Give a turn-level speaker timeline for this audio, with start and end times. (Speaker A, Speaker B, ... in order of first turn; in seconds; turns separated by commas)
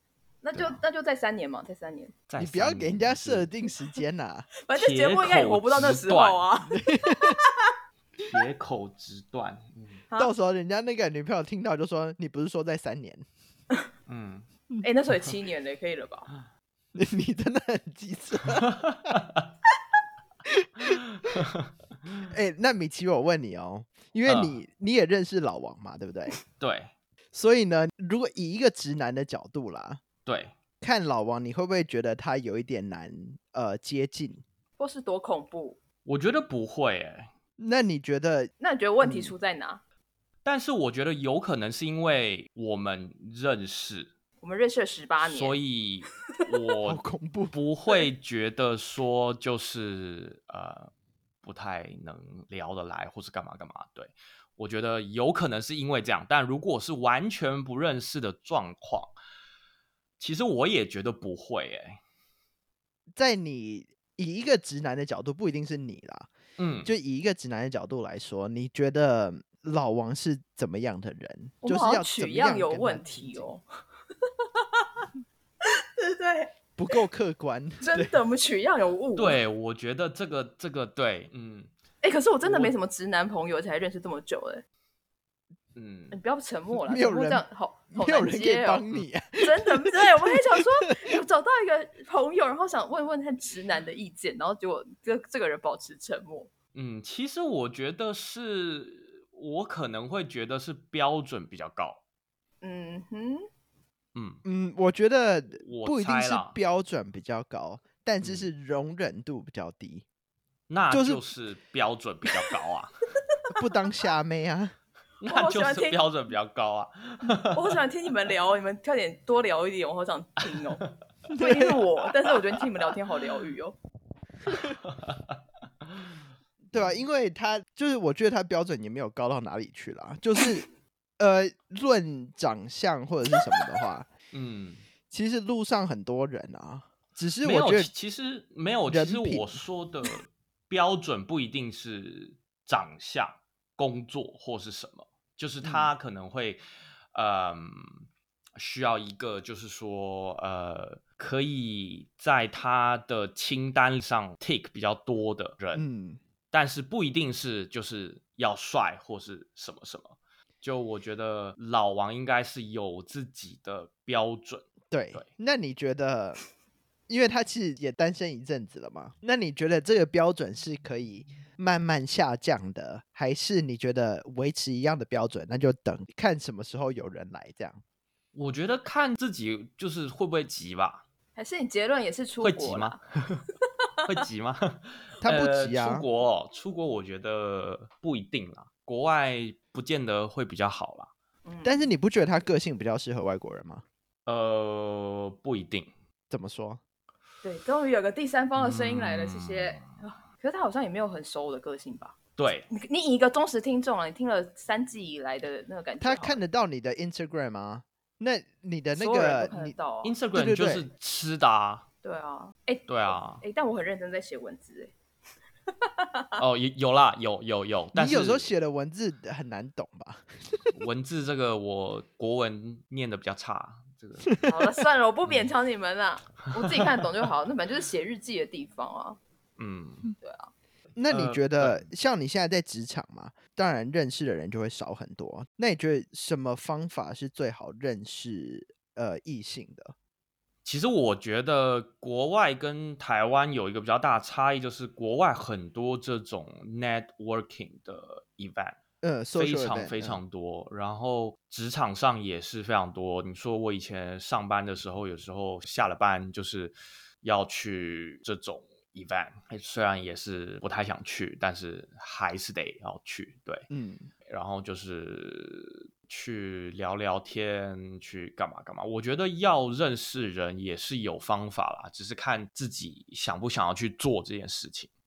Speaker A: 0.4-2.1, Speaker B: 2.3-3.5, Speaker C: 2.4-4.5, Speaker A: 4.6-7.7, Speaker B: 4.8-6.5, Speaker C: 6.7-7.4, Speaker B: 8.2-10.1, Speaker C: 10.2-13.2, Speaker B: 14.1-14.5, Speaker A: 14.8-16.3, Speaker C: 16.9-19.2, Speaker B: 18.5-19.4, Speaker C: 20.4-21.4, Speaker B: 20.9-21.7, Speaker C: 22.3-26.4, Speaker B: 24.3-24.6, Speaker B: 26.5-26.9, Speaker C: 27.3-30.0, Speaker B: 30.3-30.5, Speaker C: 30.8-34.4, Speaker A: 34.8-35.8, Speaker B: 36.0-37.3, Speaker C: 37.6-39.4, Speaker A: 38.6-39.8, Speaker B: 40.5-44.1, Speaker A: 44.4-45.6, Speaker B: 45.2-50.9, Speaker C: 46.8-47.5, Speaker B: 51.4-59.1, Speaker B: 60.2-62.0, Speaker C: 63.1-66.3, Speaker B: 66.6-66.9, Speaker C: 66.8-73.5, Speaker A: 71.6-73.6, Speaker A: 74.3-75.1, Speaker A: 75.7-76.5, Speaker C: 76.8-78.1, Speaker A: 77.8-79.4, Speaker B: 79.2-81.7, Speaker A: 82.0-84.6, Speaker B: 82.5-82.7, Speaker B: 85.8-86.2, Speaker A: 86.1-88.8, Speaker C: 86.8-91.2, Speaker A: 89.4-96.5, Speaker B: 96.7-102.0, Speaker A: 102.6-103.5, Speaker B: 104.2-104.4, Speaker C: 104.5-110.0, Speaker B: 105.5-106.6, Speaker B: 108.2-108.5, Speaker B: 110.7-112.9, Speaker C: 110.9-111.2, Speaker C: 113.6-114.7, Speaker B: 115.2-117.8, Speaker A: 115.2-116.0, Speaker A: 117.5-120.8, Speaker B: 120.5-120.9, Speaker C: 121.3-121.8, Speaker A: 121.3-123.8, Speaker B: 124.5-125.3, Speaker C: 126.7-130.7, Speaker B: 126.8-127.0, Speaker C: 131.2-134.1, Speaker B: 134.3-134.8, Speaker C: 135.1-137.9, Speaker B: 137.4-146.6, Speaker C: 138.9-139.6, Speaker C: 145.6-145.9, Speaker B: 147.1-148.1, Speaker B: 148.6-155.8, Speaker C: 155.7-156.2, Speaker B: 156.5-165.3, Speaker C: 164.9-166.4, Speaker C: 167.1-177.8, Speaker B: 178.3-181.0, Speaker A: 181.4-183.0, Speaker B: 182.4-183.5, Speaker B: 184.1-191.1, Speaker C: 185.2-186.1, Speaker A: 191.5-191.9, Speaker C: 191.6-193.8, Speaker B: 194.3-195.9, Speaker C: 196.3-196.8, Speaker A: 197.4-202.2, Speaker B: 198.6-199.9, Speaker B: 202.4-202.7, Speaker A: 202.7-206.4, Speaker C: 206.0-209.8, Speaker A: 208.9-210.2, Speaker B: 210.0-211.8, Speaker C: 210.3-210.9, Speaker A: 212.0-214.9, Speaker B: 212.9-213.4, Speaker A: 215.8-216.4, Speaker B: 216.4-218.5, Speaker C: 217.9-220.7, Speaker B: 220.7-224.4, Speaker A: 224.5-229.2, Speaker B: 229.6-230.1, Speaker A: 230.2-230.5, Speaker C: 231.0-239.9, Speaker B: 231.1-231.9, Speaker B: 240.7-248.8, Speaker C: 249.0-250.2, Speaker B: 249.4-263.7, Speaker C: 263.7-264.1, Speaker B: 264.3-274.9